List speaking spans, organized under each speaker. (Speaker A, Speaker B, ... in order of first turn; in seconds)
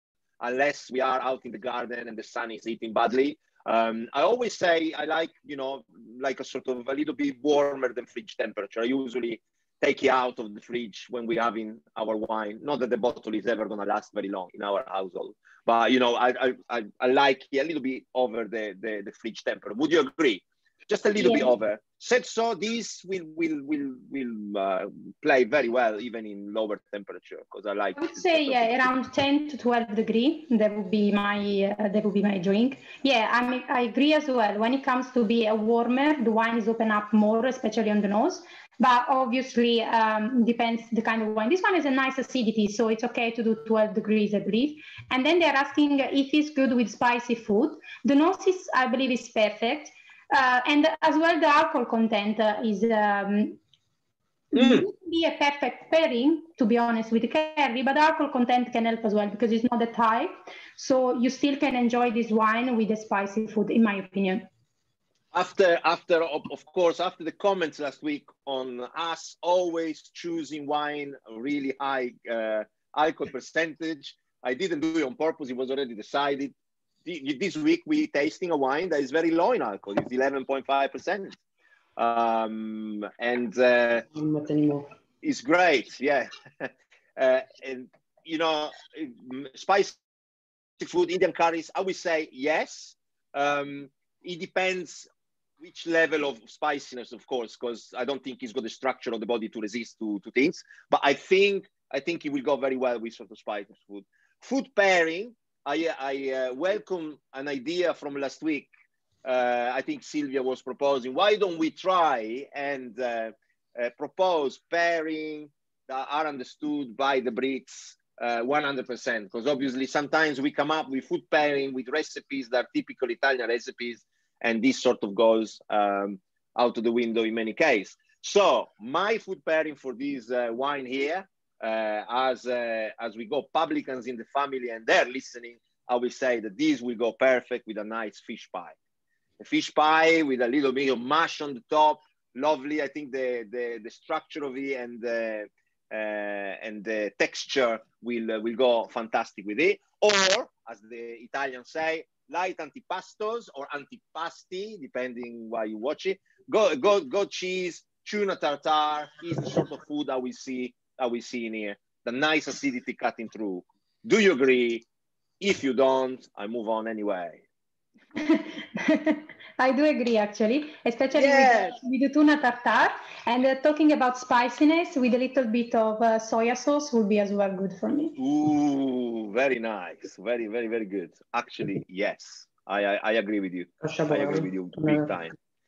Speaker A: 0.4-28.9, 54.5-54.9, 65.3-76.5, 77.0-81.4, 82.0-84.0, 85.2-90.0, 90.8-95.1, 95.6-108.7, 109.2-138.7, 139.4-164.8, 165.4-167.4, 171.1-171.8, 178.2-185.3
Speaker B: 21.2-21.5, 27.9-53.6, 54.5-64.5, 168.2-178.2
Speaker C: 84.1-84.9, 183.8-185.1